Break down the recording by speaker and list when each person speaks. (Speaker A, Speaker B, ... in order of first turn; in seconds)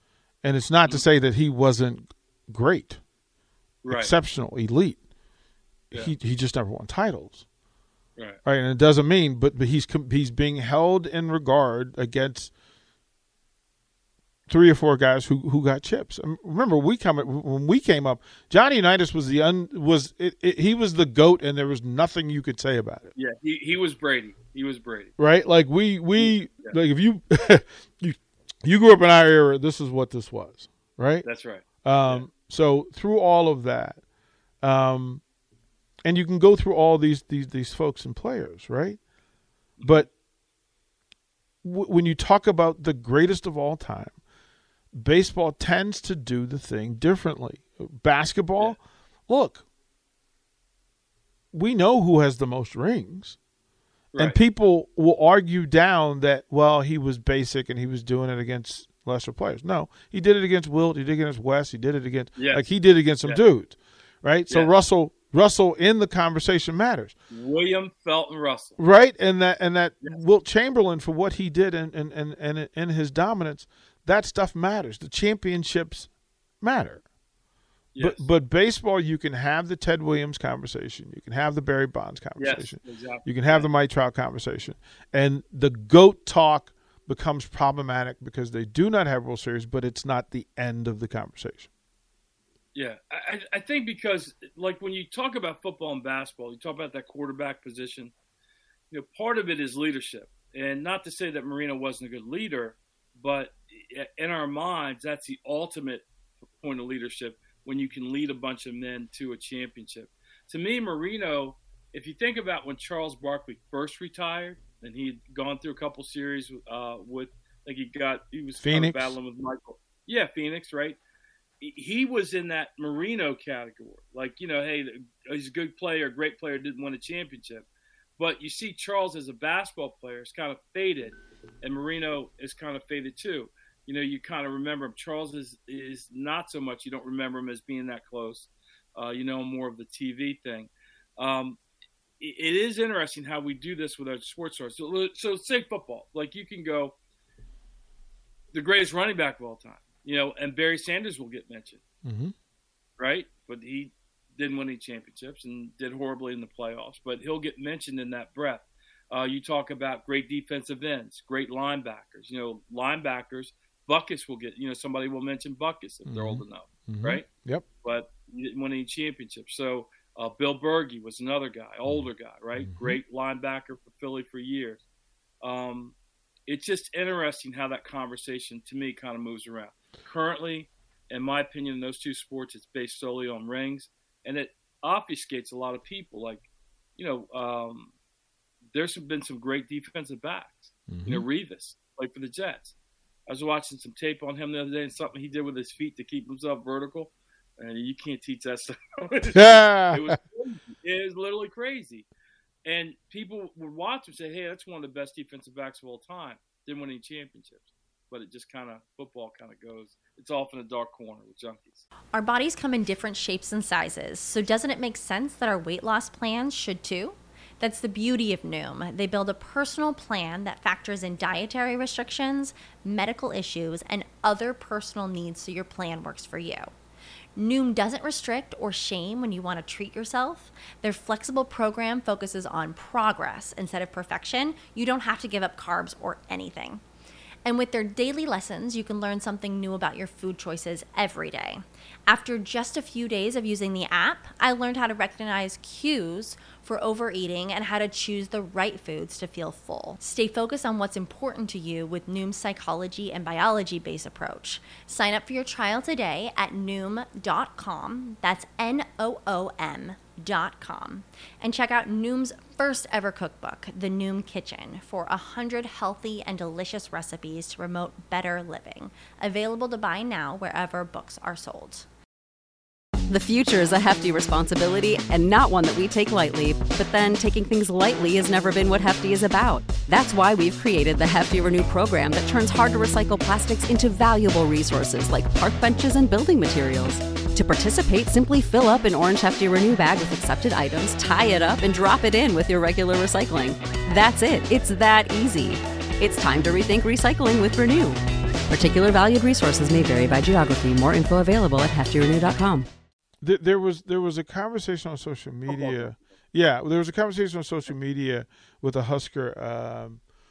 Speaker A: 0.4-3.0, 3.9-5.0, 5.9-7.4, 8.4-12.5, 14.5-23.1, 25.2-31.2, 31.8-34.0, 34.6-35.2, 36.0-39.0, 39.8-40.1, 41.6-44.2, 44.9-49.6, 51.5-53.4, 54.2-67.1, 68.8-76.1, 76.6-77.0, 78.0-91.7, 118.6-119.2, 152.0-152.3, 166.1-167.6, 172.6-173.0, 190.9-191.2, 199.3-200.2, 303.2-310.0
Speaker B: 3.8-4.1, 23.1-25.1, 26.2-26.8, 31.2-32.2, 39.8-40.1, 54.1-54.4, 62.4-62.6, 67.3-68.8, 77.9-78.2, 82.4-83.7, 92.7-98.1, 98.9-106.0, 106.6-121.0, 121.6-127.7, 128.2-141.6, 142.2-146.9, 148.5-151.8, 153.0-167.3, 167.8-174.8, 175.4-175.9, 176.5-187.9, 188.7-192.7, 193.3-202.1, 202.6-211.8, 305.5-306.0
Speaker C: 212.1-226.7, 227.3-236.8, 237.4-271.9
Speaker D: 273.1-302.7